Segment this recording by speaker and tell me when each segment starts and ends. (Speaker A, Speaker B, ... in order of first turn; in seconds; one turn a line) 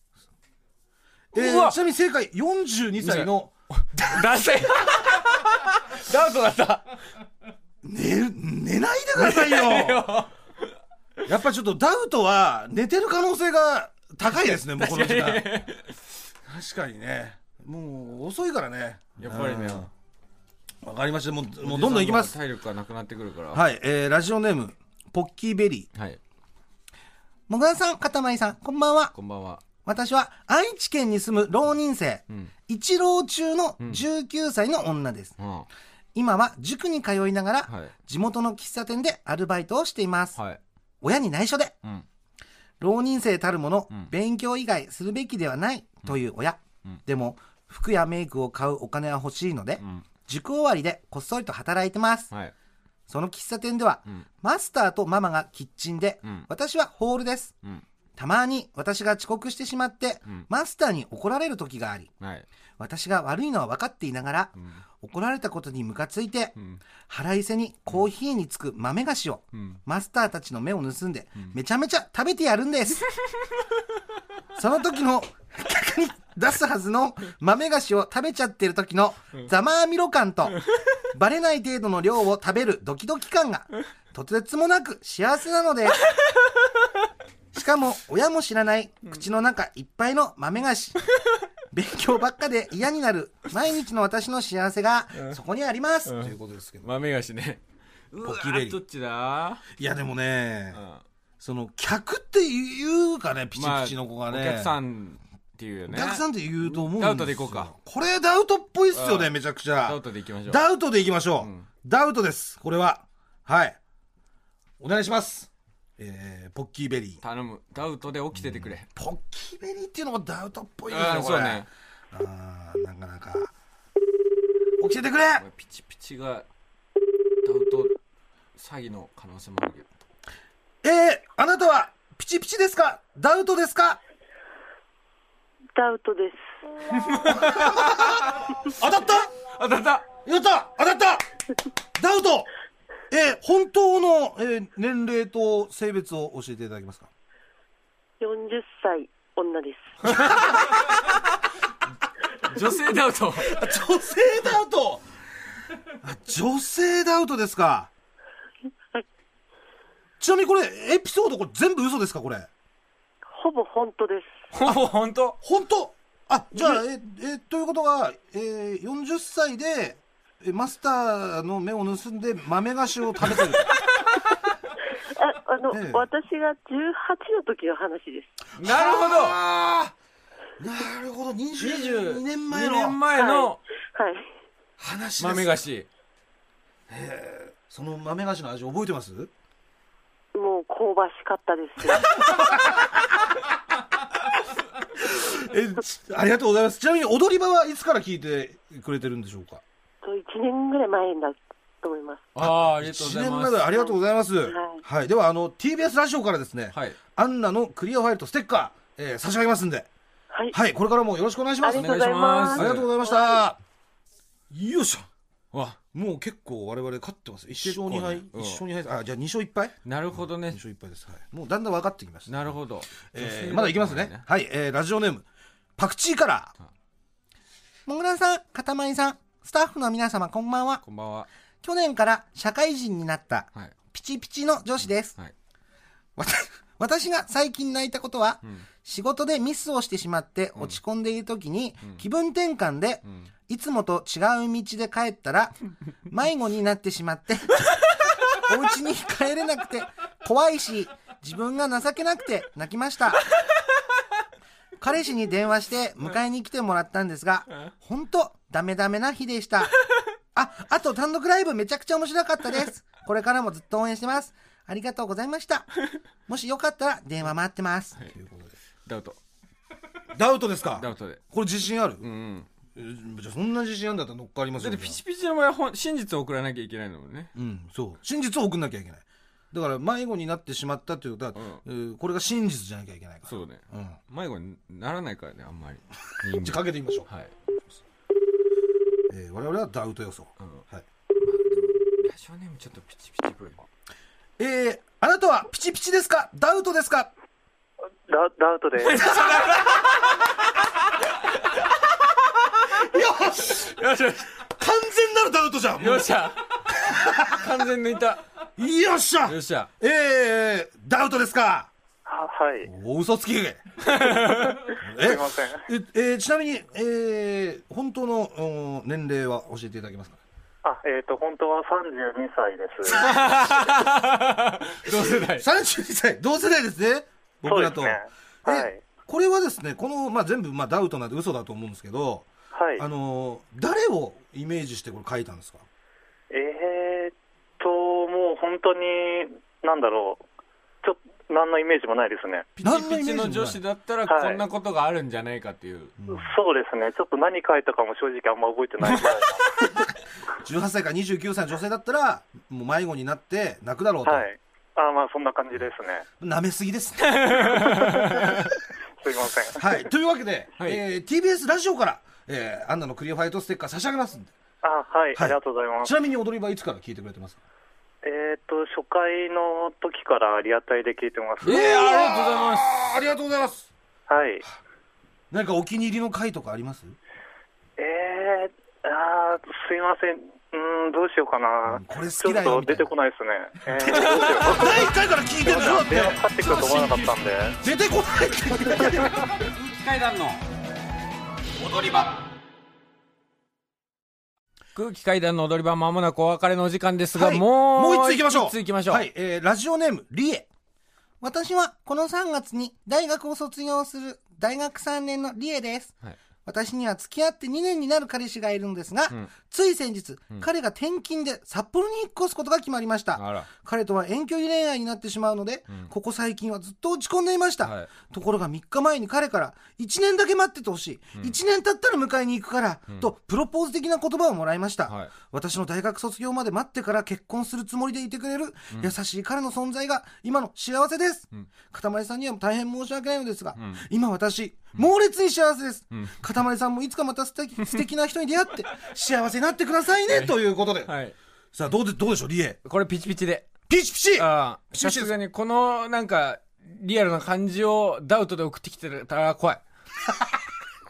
Speaker A: 1.3-4.4
Speaker B: 1.3-1.8
Speaker B: 3.0-6.9
Speaker A: 7.8-10.1
Speaker B: 9.2-10.3
Speaker A: 11.3-15.6
Speaker B: 14.3-15.9
Speaker A: 16.4-19.9
Speaker B: 19.2-19.9
Speaker A: 20.8-22.4
Speaker B: 21.6-23.6
Speaker A: 23.5-25.9
Speaker B: 25.9-26.2
Speaker A: 27.5-29.1
Speaker B: 29.1-29.6
Speaker A: 29.9-35.3
Speaker B: 35.4-35.7
Speaker A: 36.2-40.4
Speaker B: 37.7-37.9
Speaker B: 40.4-40.6
Speaker A: 41.0-41.8
Speaker A: 42.8-52.3
Speaker B: 49.8-50.1
Speaker A: 53.1-57.5
Speaker B: 56.2-56.5
Speaker A: 58.2-62.1
Speaker B: 62.2-62.5
Speaker A: 62.8-66.5
Speaker B: 64.6-64.8
Speaker B: 66.6-66.8
Speaker A: 67.1-73.0
Speaker B: 69.5-69.8
Speaker A: 74.5-80.6
Speaker A: 81.1-86.0
Speaker A: 87.5-91.0
Speaker A: 91.7-96.9
Speaker B: 96.1-97.6
Speaker B: 98.1-99.6
Speaker A: 98.2-98.8
Speaker A: 99.8-100.8
Speaker B: 100.7-101.0
Speaker A: 101.4-104.7
Speaker B: 103.5-107.7
Speaker A: 105.9-113.8
Speaker B: 108.9-109.3
Speaker B: 109.8-110.6
Speaker B: 111.4-111.7
Speaker A: 114.8-117.2
Speaker B: 117.2-118.9
Speaker A: 118.3-123.5
Speaker B: 120.9-121.7
Speaker A: 124.8-125.5
Speaker B: 125.4-126.5
Speaker B: 127.4-128.0
Speaker B: 128.6-129.9
Speaker A: 130.8-134.0
Speaker B: 136.9-138.6
Speaker A: 137.2-139.3
Speaker B: 139.5-140.1
Speaker A: 140.2-141.3
Speaker A: 142.0-142.5
Speaker A: 143.1-147.1
Speaker C: 149.1-149.7
Speaker B: 150.0-151.2
Speaker B: 152.4-153.6
Speaker A: 153.4-155.0
Speaker A: 156.0-157.9
Speaker A: 160.2-162.5
Speaker B: 164.5-165.4
Speaker A: 165.4-173.8
Speaker A: 175.7-176.1
Speaker B: 178.6-179.4
Speaker A: 178.6-179.9
Speaker A: 180.6-183.0
Speaker B: 181.6-183.6
Speaker C: 183.2-183.4
Speaker A: 184.8-185.6
Speaker B: 185.2-185.9
Speaker A: 186.9-189.3
Speaker A: 192.3-192.9
Speaker A: 194.9-199.6
Speaker B: 202.3-203.7
Speaker A: 202.4-209.9
Speaker B: 206.7-207.0
Speaker A: 210.5-213.6
Speaker C: 211.7-213.0
Speaker B: 211.7-212.9
Speaker A: 214.5-215.1
Speaker B: 215.5-215.8
Speaker A: 215.9-219.8
Speaker B: 217.6-218.6
Speaker B: 219.8-220.6
Speaker A: 220.4-225.2
Speaker B: 222.3-224.2
Speaker A: 225.8-226.5
Speaker A: 227.9-230.8
Speaker B: 230.8-231.3
Speaker A: 231.6-235.2
Speaker A: 236.2-245.6
Speaker A: 246.1-247.7
Speaker A: 248.5-253.2
Speaker A: 254.8-259.7
Speaker A: 260.4-265.7
Speaker A: 266.3-268.5
Speaker B: 268.9-269.2
Speaker A: 270.1-272.0
Speaker B: 270.8-271.2
Speaker B: 272.0-272.5
Speaker A: 272.8-275.0
Speaker B: 274.6-277.3
Speaker A: 277.4-284.0
Speaker B: 281.4-281.6
Speaker B: 283.3-287.3
Speaker A: 286.4-287.1
Speaker A: 289.1-290.9
Speaker B: 291.2-293.6
Speaker A: 294.4-297.1
Speaker D: 298.1-299.2
Speaker B: 298.8-300.4
Speaker B: 301.3-301.6
Speaker A: 302.7-303.8
Speaker B: 303.5-304.4
Speaker A: 304.4-306.1
Speaker B: 305.8-308.2
Speaker A: 306.7-307.5
Speaker A: 308.6-311.7
Speaker B: 309.3-309.7
Speaker D: 312.1-312.7
Speaker A: 312.6-313.6
Speaker B: 313.8-314.7
Speaker A: 314.8-320.2
Speaker D: 314.9-315.6
Speaker D: 320.6-323.1
Speaker B: 322.9-325.5
Speaker A: 324.9-335.6
Speaker D: 327.5-328.8
Speaker D: 332.5-332.9
Speaker D: 336.3-340.2
Speaker D: 340.8-342.5
Speaker B: 342.6-345.9
Speaker A: 342.6-343.6
Speaker D: 344.1-344.4
Speaker A: 346.0-346.3
Speaker D: 346.1-349.6
Speaker A: 350.4-354.3
Speaker D: 354.0-356.1
Speaker A: 356.2-357.9
Speaker B: 357.0-358.5
Speaker D: 359.0-359.9
Speaker A: 359.6-364.3
Speaker D: 364.6-365.9
Speaker A: 365.1-367.4
Speaker D: 368.0-371.9
Speaker B: 371.4-372.8
Speaker A: 371.4-373.7
Speaker D: 374.1-374.4
Speaker A: 375.3-377.0
Speaker D: 377.8-384.8
Speaker A: 381.7-382.9
Speaker A: 383.8-386.2
Speaker B: 383.9-384.6
Speaker D: 385.4-387.6
Speaker B: 386.4-387.1
Speaker A: 387.6-389.4
Speaker B: 389.3-390.4
Speaker A: 391.6-392.2
Speaker B: 394.8-399.1
Speaker A: 397.1-400.5
Speaker A: 401.2-405.9
Speaker A: 406.5-440.9
Speaker B: 413.1-413.5
Speaker B: 417.6-417.9
Speaker B: 424.9-425.1
Speaker B: 433.6-433.8
Speaker B: 440.1-441.2
Speaker A: 441.5-442.6
Speaker B: 442.6-443.6
Speaker A: 443.7-445.1
Speaker B: 444.2-449.6
Speaker A: 450.1-450.4